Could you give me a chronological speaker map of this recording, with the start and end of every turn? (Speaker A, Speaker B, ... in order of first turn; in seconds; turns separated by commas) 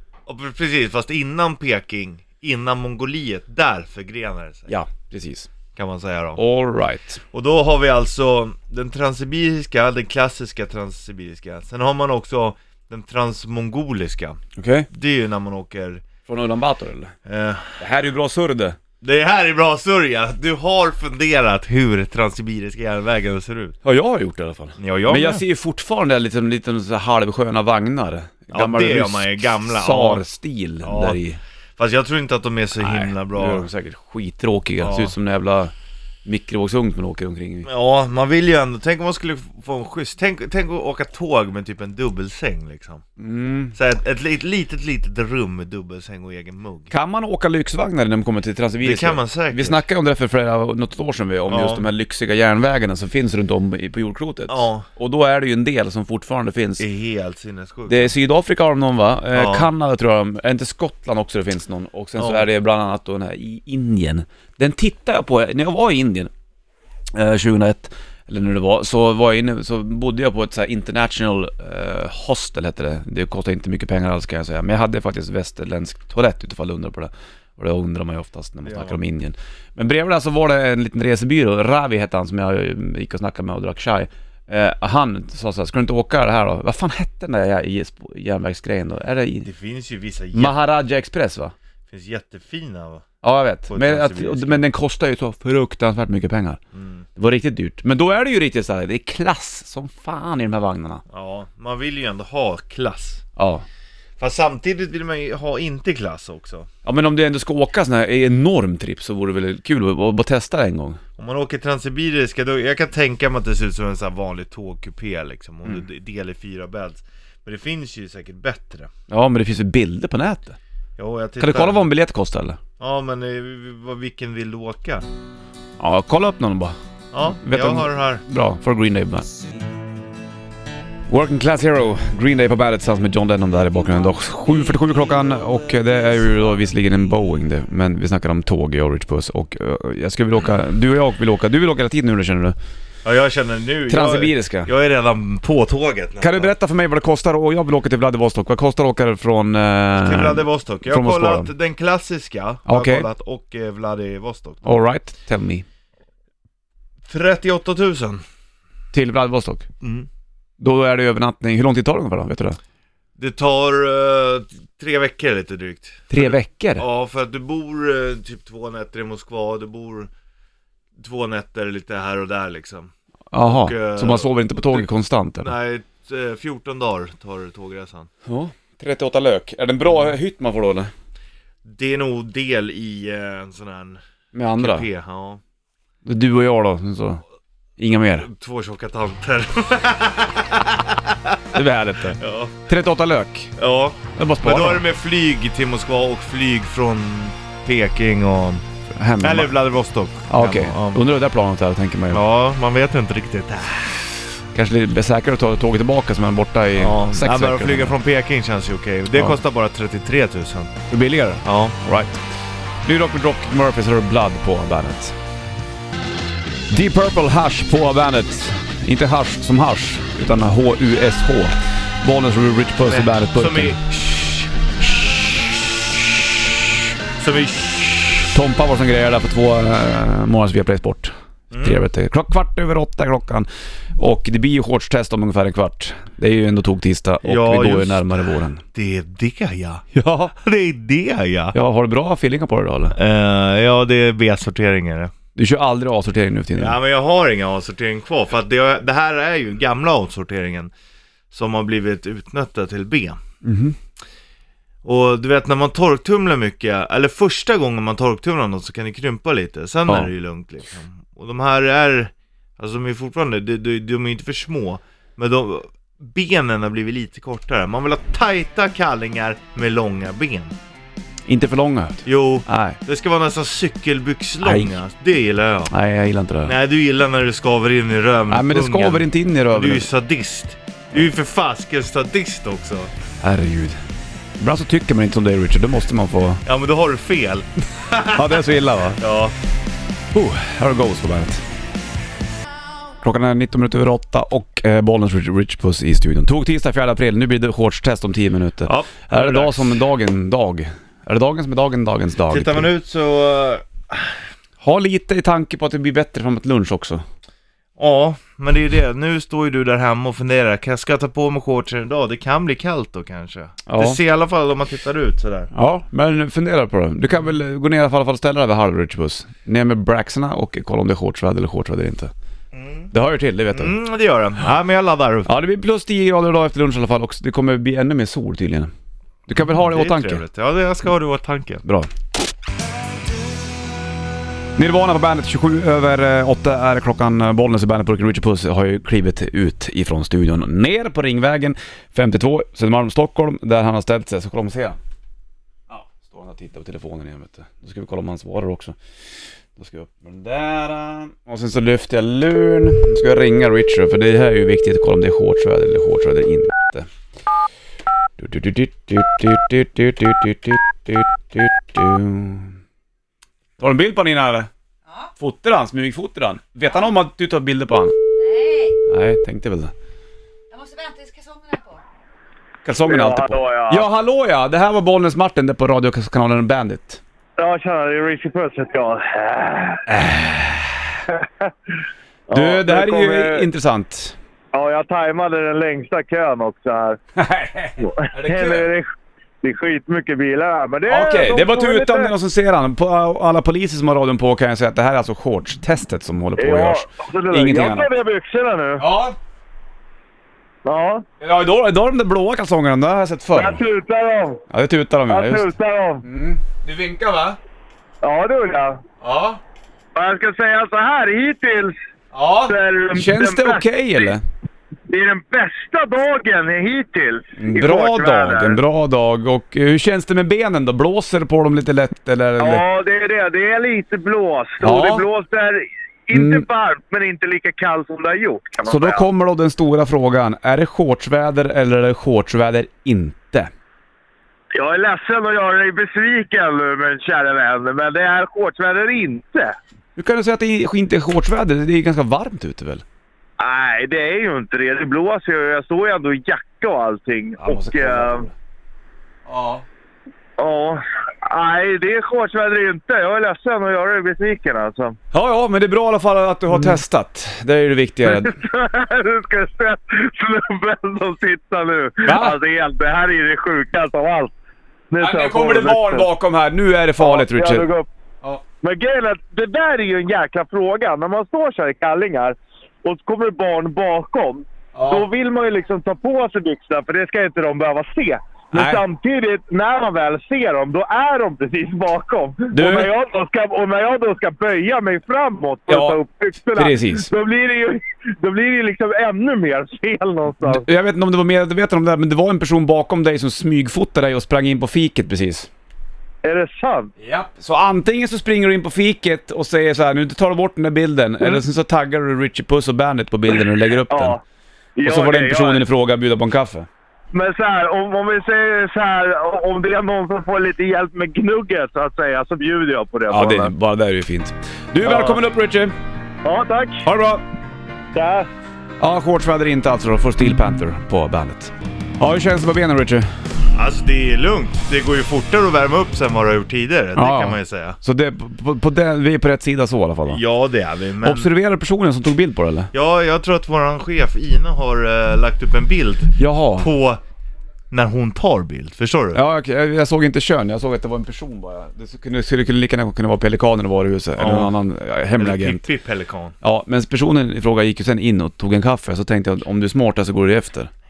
Speaker A: 0.3-4.7, Speaker B: 4.7-5.5, Speaker A: 5.8-6.4, Speaker B: 6.4-7.2, Speaker A: 7.3-16.0, Speaker B: 14.6-14.9, Speaker B: 16.3-17.1, Speaker A: 17.3-17.8, Speaker B: 17.8-18.8, Speaker A: 19.0-23.8, Speaker B: 23.8-31.4, Speaker A: 24.8-25.4, Speaker A: 28.5-30.2, Speaker A: 30.8-31.2, Speaker A: 31.8-33.7, Speaker B: 32.8-35.7, Speaker A: 34.8-35.1, Speaker B: 36.2-37.7, Speaker A: 37.6-43.0, Speaker B: 43.2-43.8, Speaker A: 43.7-46.9, Speaker B: 46.9-56.9, Speaker A: 48.8-49.8, Speaker A: 51.5-51.9, Speaker A: 54.5-54.9, Speaker A: 56.8-58.1, Speaker B: 57.9-66.3, Speaker A: 59.3-59.7, Speaker A: 62.2-62.5, Speaker B: 67.1-89.5, Speaker A: 78.7-79.0, Speaker A: 89.4-90.6, Speaker B: 90.3-91.5, Speaker A: 91.9-93.0, Speaker B: 93.2-96.6, Speaker A: 93.7-94.6, Speaker A: 96.7-97.1, Speaker B: 97.2-101.0, Speaker A: 101.1-103.2, Speaker B: 103.4-103.6, Speaker A: 104.2-106.7, Speaker B: 106.8-111.0, Speaker A: 111.2-118.9, Speaker B: 119.1-120.6, Speaker A: 121.0-121.8, Speaker B: 121.4-122.6, Speaker A: 122.8-125.0, Speaker B: 125.8-126.8, Speaker A: 127.1-128.2, Speaker B: 127.3-129.3, Speaker B: 131.1-142.6, Speaker A: 143.0-146.5, Speaker B: 143.9-144.7, Speaker B: 146.2-151.5, Speaker A: 149.9-154.7, Speaker B: 152.7-153.1, Speaker B: 154.6-155.7, Speaker A: 157.1-158.2, Speaker B: 158.9-159.7, Speaker A: 159.8-160.1, Speaker B: 160.6-162.6, Speaker A: 163.2-170.1, Speaker B: 166.1-166.8, Speaker A: 171.0-174.9, Speaker B: 173.3-175.5, Speaker A: 175.4-178.1, Speaker B: 178.3-180.9, Speaker A: 181.6-184.0, Speaker B: 184.3-184.9, Speaker A: 184.6-185.4, Speaker B: 186.1-187.2, Speaker B: 187.8-188.3, Speaker A: 188.2-191.6, Speaker B: 191.5-193.5, Speaker A: 192.1-192.6, Speaker A: 193.6-198.7, Speaker B: 194.2-194.8, Speaker B: 198.9-199.5, Speaker A: 199.2-201.0, Speaker B: 200.3-202.2, Speaker A: 202.1-204.2, Speaker B: 204.5-207.9, Speaker A: 206.8-210.8, Speaker B: 210.9-212.2, Speaker A: 211.4-211.8, Speaker B: 212.8-215.2, Speaker B: 216.7-223.8, Speaker A: 222.8-224.5, Speaker A: 227.2-228.3, Speaker B: 228.3-238.6, Speaker A: 231.5-231.8, Speaker A: 237.2-241.6, Speaker B: 239.9-240.3, Speaker B: 241.5-243.0, Speaker A: 242.9-245.1, Speaker B: 245.3-246.8, Speaker A: 246.6-250.7, Speaker A: 251.3-253.2, Speaker B: 253.4-253.8, Speaker A: 254.8-270.6, Speaker B: 271.3-272.8, Speaker A: 272.1-275.7, Speaker B: 274.4-274.7, Speaker B: 275.7-276.5, Speaker A: 276.5-282.9, Speaker B: 278.3-279.9, Speaker B: 283.2-283.8, Speaker B: 284.4-286.4, Speaker A: 286.4-289.4, Speaker B: 288.1-289.0, Speaker B: 290.1-291.4, Speaker B: 293.0-302.7, Speaker A: 298.6-299.8, Speaker A: 302.3-304.2, Speaker B: 304.6-307.0, Speaker A: 307.8-315.5, Speaker B: 313.7-314.0, Speaker B: 315.5-322.1, Speaker A: 322.5-322.9, Speaker B: 322.9-323.8, Speaker A: 323.5-325.3, Speaker B: 325.3-328.7, Speaker B: 329.3-330.2, Speaker A: 329.4-331.6, Speaker B: 334.6-344.8, Speaker B: 345.7-348.8, Speaker B: 349.6-356.9, Speaker B: 358.2-362.6, Speaker B: 363.6-364.5, Speaker B: 365.2-367.9, Speaker C: 368.2-368.8, Speaker B: 368.9-369.7, Speaker C: 370.5-371.8, Speaker B: 372.6-377.0, Speaker D: 372.9-373.9, Speaker D: 377.4-379.9, Speaker B: 379.9-380.9, Speaker D: 381.1-381.5, Speaker D: 382.3-383.5, Speaker B: 382.3-384.2, Speaker D: 384.5-387.0, Speaker B: 387.2-388.7, Speaker D: 387.8-388.9, Speaker D: 389.4-392.1, Speaker B: 390.9-397.9, Speaker D: 396.4-398.9, Speaker B: 398.8-399.2, Speaker D: 400.6-401.1, Speaker B: 401.2-403.6, Speaker D: 403.4-404.4, Speaker B: 404.5-405.5, Speaker D: 405.1-406.0, Speaker B: 406.0-407.4, Speaker D: 408.0-408.8, Speaker B: 409.0-409.4, Speaker D: 409.9-411.8, Speaker B: 412.1-414.2, Speaker D: 412.5-414.1, Speaker D: 414.9-418.6, Speaker B: 417.4-422.6, Speaker D: 422.4-429.1, Speaker B: 424.6-425.1, Speaker B: 426.1-426.4, Speaker B: 428.7-433.5, Speaker D: 434.5-439.6, Speaker B: 440.0-442.9, Speaker D: 443.4-448.3, Speaker B: 447.4-448.3, Speaker B: 449.3-449.6, Speaker D: 450.4-455.0, Speaker B: 455.1-458.4, Speaker D: 458.1-464.3, Speaker B: 462.1-462.4, Speaker D: 464.9-466.1, Speaker B: 465.0-467.7, Speaker D: 467.0-467.9, Speaker D: 468.6-490.7, Speaker B: 474.8-475.1, Speaker B: 478.5-478.8, Speaker B: 482.5-482.9, Speaker B: 485.7-486.0, Speaker B: 486.6-487.1, Speaker B: 490.4-495.5, Speaker D: 496.2-496.9, Speaker B: 497.0-504.2, Speaker D: 503.9-504.2, Speaker D: 504.8-505.6, Speaker B: 504.8-506.7, Speaker D: 507.1-513.5, Speaker B: 513.1-515.7, Speaker D: 514.8-515.2, Speaker D: 516.2-516.9, Speaker B: 516.9-517.2, Speaker D: 517.9-518.3, Speaker B: 518.8-523.1, Speaker A: 523.5-527.8, Speaker B: 527.0-530.2, Speaker A: 530.1-531.3, Speaker B: 531.0-532.7, Speaker A: 532.7-537.0, Speaker B: 536.2-536.7, Speaker A: 537.7-539.2, Speaker B: 539.1-545.6, Speaker A: 544.2-544.6, Speaker A: 545.2-546.4, Speaker B: 546.4-550.7